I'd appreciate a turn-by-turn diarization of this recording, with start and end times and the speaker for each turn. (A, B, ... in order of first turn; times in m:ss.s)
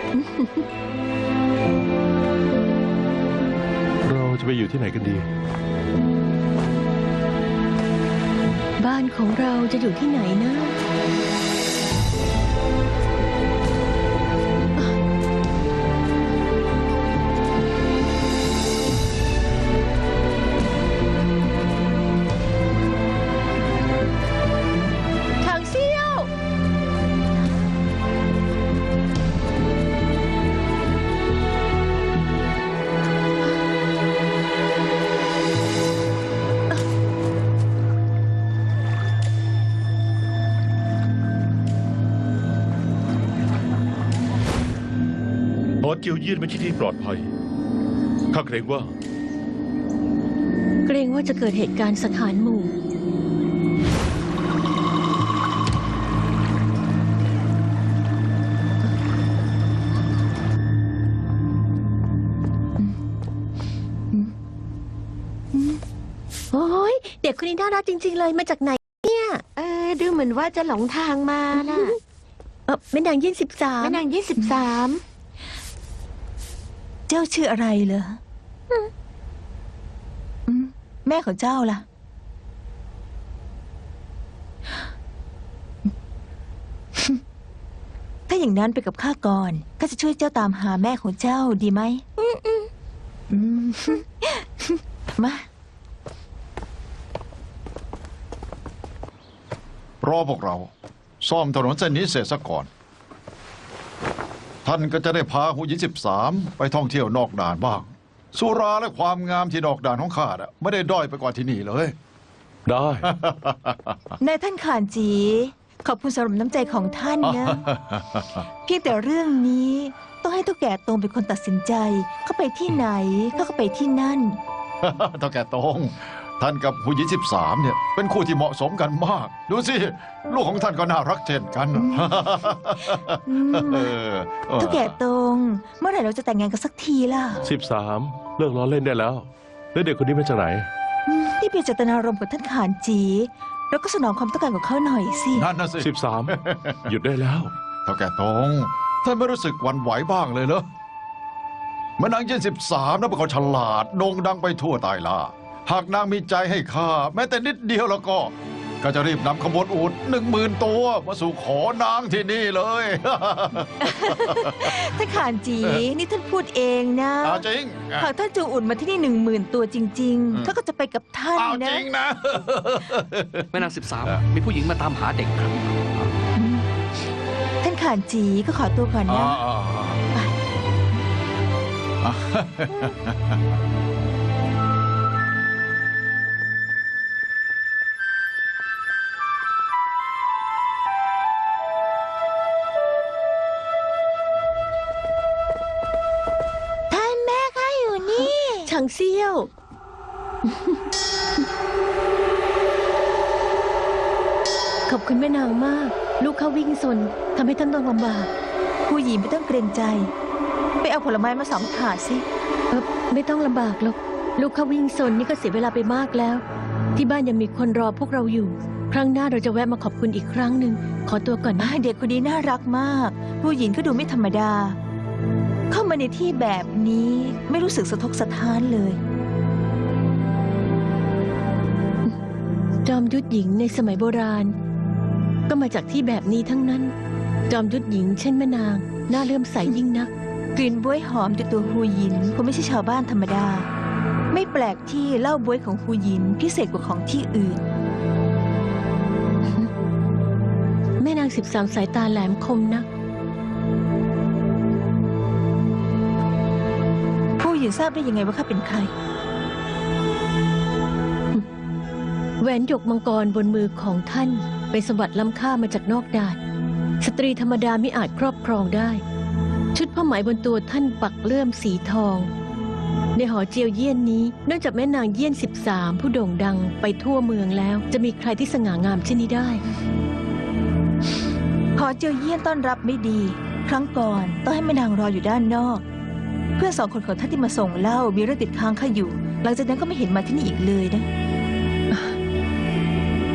0:00.2-0:00.7 A
0:04.0-0:05.2 B
0:08.8-0:10.8 A
0:25.4-0:26.3 A
0:45.8-0:47.3 C
0:48.3-0:48.9 C
0:50.9-0:52.7 A
1:05.5-1:05.8 D
1:06.5-1:09.4 A
1:09.6-1:12.0 E
1:12.7-1:14.0 A
1:13.8-1:15.0 E
1:17.1-1:18.2 D
1:20.5-1:21.8 D
1:27.0-1:27.2 D
1:28.3-1:32.2 D
1:33.3-1:35.5 D
1:40.0-1:42.7 F
1:44.6-1:52.0 F
1:52.7-1:53.1 B
1:53.0-1:54.0 F
1:54.2-1:57.6 D
1:57.2-1:58.4 F
1:58.7-2:04.4 D
2:04.8-2:15.0 F
2:11.8-2:12.1 D
2:13.3-2:14.0 D
2:14.6-2:17.4 D
2:17.5-2:20.7 B
2:21.1-2:25.5 D
2:25.3-2:26.9 F
2:25.8-2:26.4 B
2:26.9-2:27.5 B
2:27.8-2:30.7 F
2:32.0-2:44.8 F
2:43.8-2:47.4 D
2:45.6-2:45.9 F
2:47.2-2:48.1 F
2:48.0-2:51.9 D
2:51.4-2:54.2 F
2:53.5-2:55.8 G
2:56.4-2:56.7 D
2:57.6-2:59.4 D
2:59.1-3:00.0 F
3:02.0-3:03.4 F
3:16.9-3:18.7 D
3:18.1-3:19.5 A
3:24.9-3:28.3 A
3:28.9-3:30.1 D
3:30.8-3:32.2 D
3:32.7-3:36.4 A
3:37.0-3:41.7 A
3:41.6-3:44.8 D
3:45.7-3:49.0 D
3:52.8-3:54.5 A
3:55.5-3:56.9 A
3:57.5-4:00.1 A
4:00.6-4:03.7 D
4:04.3-4:07.6 D
4:09.4-4:09.7 A
4:11.0-4:12.9 A
4:17.4-4:18.9 D
4:22.4-4:26.4 A
4:27.0-4:29.0 A
4:29.7-4:32.3 A
4:33.2-4:39.6 A
4:41.8-4:45.8 D
4:46.6-4:51.1 D